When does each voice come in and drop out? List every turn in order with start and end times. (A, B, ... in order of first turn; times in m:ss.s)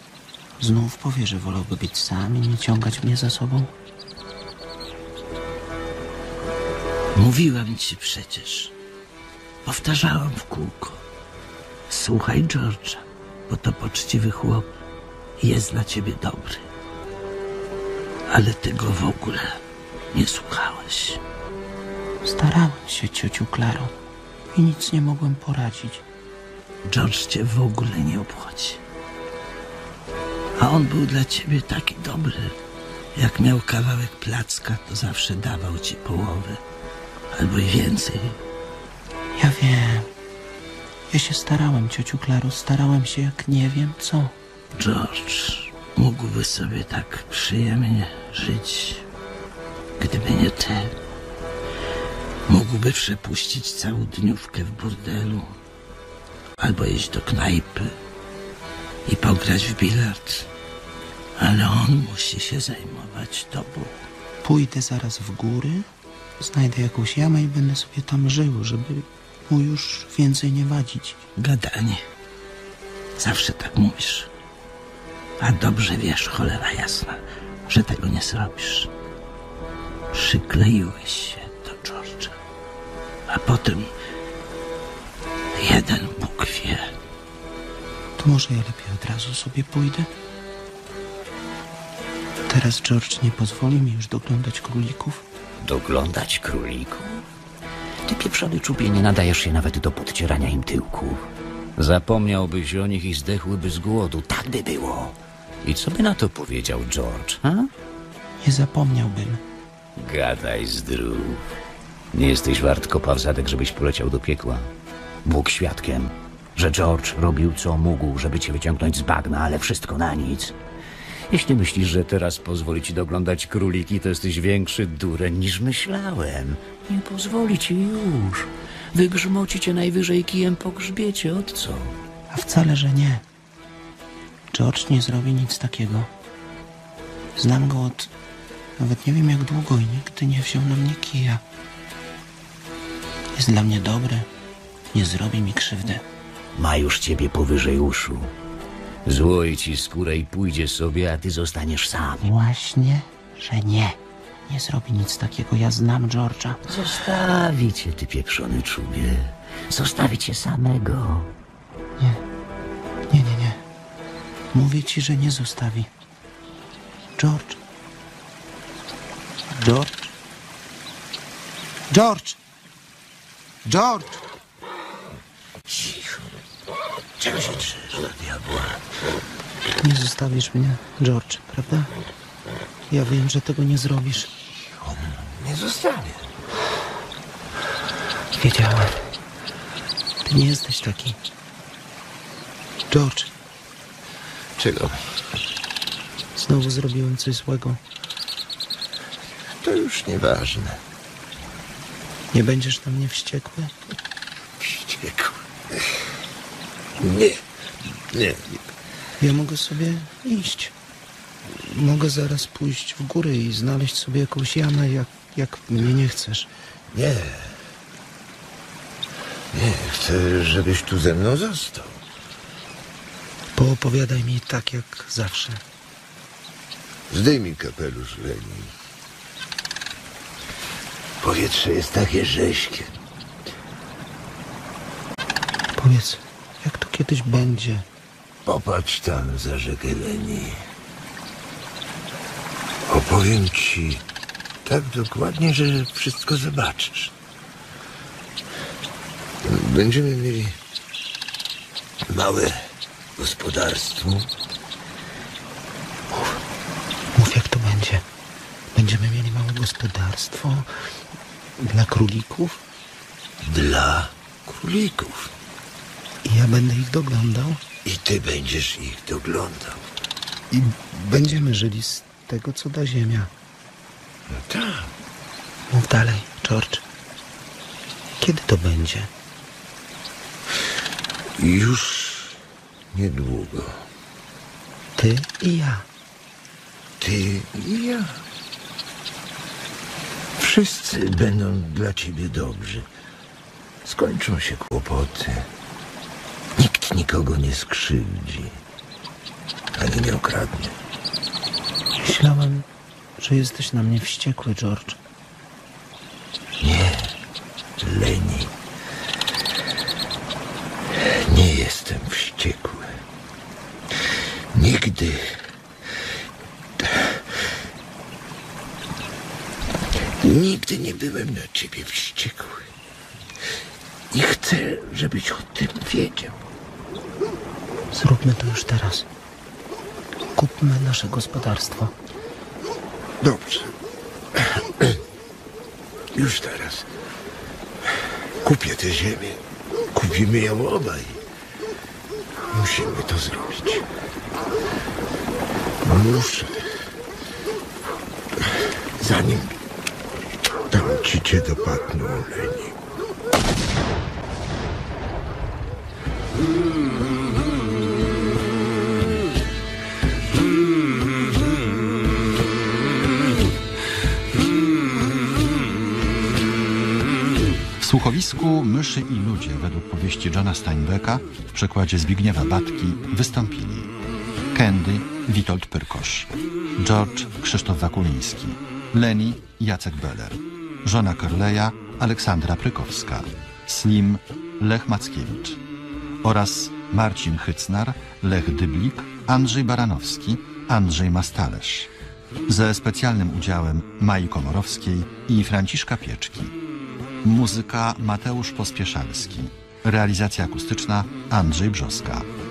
0:00.6-0:03.7 A
0:07.1-0:08.7 B
0:09.6-0:11.0 B
0:11.9-0:14.7 B
0:15.4-0:16.7 B
0:18.3-0:19.6 B
0:20.1-0:21.2 B
0:22.2-0:23.9 A
0:24.5-0:26.0 A
0:26.8-0:28.8 B
0:30.6-0:32.6 B
0:33.2-0:36.6 B
0:37.3-0:38.4 B
0:39.4-0:40.1 A
0:41.1-0:44.3 A
0:44.7-0:49.0 B
0:50.0-0:51.0 B
0:52.5-0:55.5 B
0:56.6-0:57.9 B
0:59.0-1:00.5 B
1:01.4-1:03.9 B
1:04.4-1:05.9 A
1:06.4-1:11.2 A
1:11.4-1:12.0 B
1:13.2-1:14.3 B
1:15.4-1:18.9 B
1:20.1-1:22.3 B
1:23.3-1:23.9 B
1:25.5-1:26.9 B
1:28.2-1:30.1 A
1:32.5-1:35.2 A
1:35.6-1:37.2 C
1:38.0-1:41.2 C
1:41.8-1:47.7 C
1:48.4-1:49.4 A
1:50.0-1:51.5 C
1:52.1-1:54.7 C
1:55.2-2:00.6 C
2:01.3-2:11.9 C
2:12.3-2:13.2 A
2:14.5-2:16.1 A
2:17.4-2:18.1 A
2:18.8-2:21.4 A
2:23.3-2:24.3 A
2:24.9-2:26.0 A
2:26.6-2:28.3 C
2:29.0-2:32.3 C
2:32.2-2:34.0 A
2:34.5-2:36.6 A
2:36.7-2:41.3 C
2:43.1-2:43.6 A
2:44.5-2:45.9 A
2:47.2-2:47.6 A
2:49.5-2:50.1 A
2:51.9-2:52.4 A
2:53.6-2:54.2 A
2:55.6-2:56.3 D
2:57.2-2:58.8 D
2:59.8-3:01.9 A
3:02.9-3:04.3 A
3:04.7-3:06.3 D
3:08.4-3:09.0 A
3:10.2-3:11.2 A
3:12.9-3:13.3 A
3:14.6-3:15.0 D
3:16.3-3:17.8 A
3:19.6-3:20.8 D
3:22.3-3:23.7 A
3:24.6-3:25.8 D
3:27.0-3:27.4 D
3:28.1-3:28.6 D
3:29.2-3:30.7 A
3:31.5-3:36.5 A
3:36.9-3:37.6 D
3:39.5-3:42.0 D
3:43.6-3:45.6 A
3:47.1-3:48.7 D
3:51.2-3:52.9 D
3:55.8-3:57.8 A
3:58.4-4:00.6 D
4:02.9-4:04.0 D
4:04.6-4:07.1 D
4:09.4-4:10.6 D
4:12.1-4:14.3 D
4:17.1-4:18.0 A
4:18.7-4:20.7 A
4:21.6-4:22.6 A
4:23.4-4:25.3 D
4:26.2-4:27.6 A
4:27.8-4:29.8 D
4:30.6-4:33.3 A
4:34.3-4:34.9 D
4:35.7-4:36.8 A
4:38.2-4:39.1 A
4:41.4-4:42.4 D
4:42.9-4:43.8 D
4:45.0-4:45.8 A
4:47.0-4:48.2 D
4:50.4-4:52.9 D
4:53.8-4:55.5 D
4:56.6-4:58.6 D
4:59.8-5:00.7 D
5:02.0-5:02.7 A
5:03.2-5:05.0 A
5:06.6-5:07.2 D
5:07.8-5:08.5 D
5:11.0-5:12.9 D
5:14.5-5:15.4 D
5:16.8-5:17.2 D
5:20.2-5:22.7 D
5:24.1-5:26.4 D
5:27.9-5:29.1 A
5:30.3-5:31.9 A
5:33.2-5:33.7 D
5:34.4-5:35.0 D
5:36.1-5:36.9 D
5:38.4-5:39.4 D
5:39.9-5:41.2 D
5:42.5-5:43.8 D
5:45.8-5:46.7 D
5:48.4-5:49.6 D
5:50.7-5:52.7 D
6:07.8-6:13.9 E
6:14.5-6:25.6 E
6:26.2-6:31.9 E
6:32.5-6:36.5 E
6:37.2-6:42.3 E